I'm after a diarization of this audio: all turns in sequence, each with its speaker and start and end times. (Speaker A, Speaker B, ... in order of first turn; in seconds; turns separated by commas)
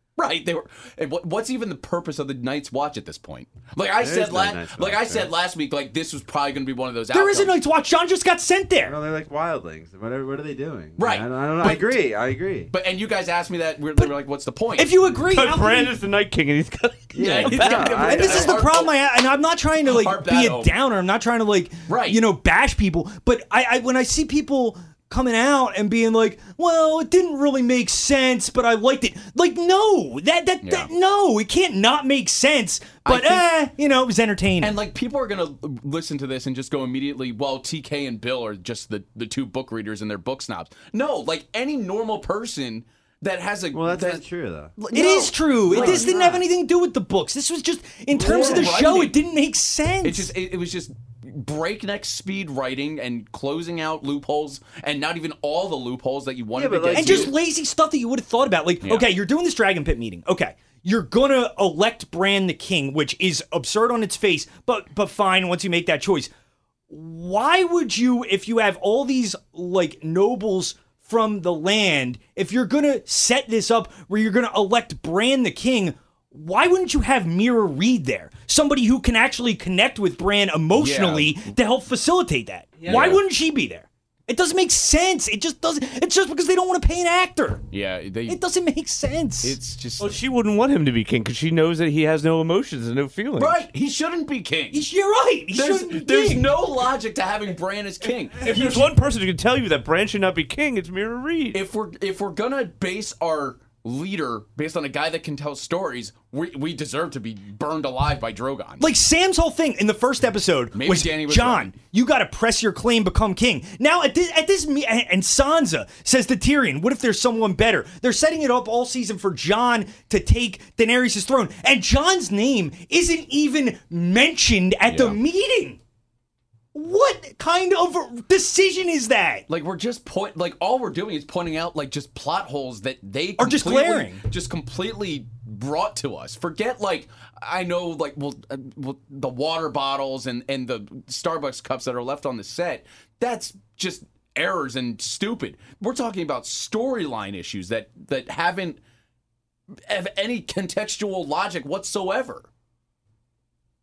Speaker A: 0.2-7.5, Speaker B: 4.0-5.3, Speaker C: 7.1-9.0, Speaker B: 8.8-12.7, Speaker A: 11.0-12.0, Speaker A: 12.7-14.9, Speaker C: 14.8-15.9, Speaker D: 15.3-18.5, Speaker B: 17.1-18.6, Speaker A: 17.1-18.9, Speaker C: 18.0-34.8, Speaker A: 19.8-20.7, Speaker A: 21.9-22.2, Speaker A: 30.6-30.9, Speaker A: 33.0-33.4, Speaker A: 34.6-44.2, Speaker B: 43.7-44.7, Speaker A: 44.8-46.2, Speaker C: 44.9-50.3, Speaker B: 45.7-46.4, Speaker A: 48.1-49.1, Speaker B: 48.2-48.8, Speaker A: 50.0-57.3, Speaker B: 56.5-57.3, Speaker C: 56.9-66.3, Speaker A: 58.8-59.1, Speaker C: 66.9-87.6, Speaker A: 80.8-81.5, Speaker D: 82.8-83.1, Speaker A: 82.9-83.2, Speaker A: 87.7-88.4, Speaker C: 88.3-89.6, Speaker A: 89.4-90.2, Speaker D: 90.0-93.6, Speaker A: 93.4-94.8, Speaker C: 94.7-96.5, Speaker A: 95.5-98.8, Speaker D: 98.4-101.6, Speaker C: 98.5-98.8, Speaker A: 101.5-108.8, Speaker C: 108.8-125.8, Speaker A: 110.7-111.7, Speaker A: 124.9-125.2, Speaker C: 126.7-129.4, Speaker A: 129.5-148.8, Speaker C: 133.4-134.2, Speaker A: 149.8-152.5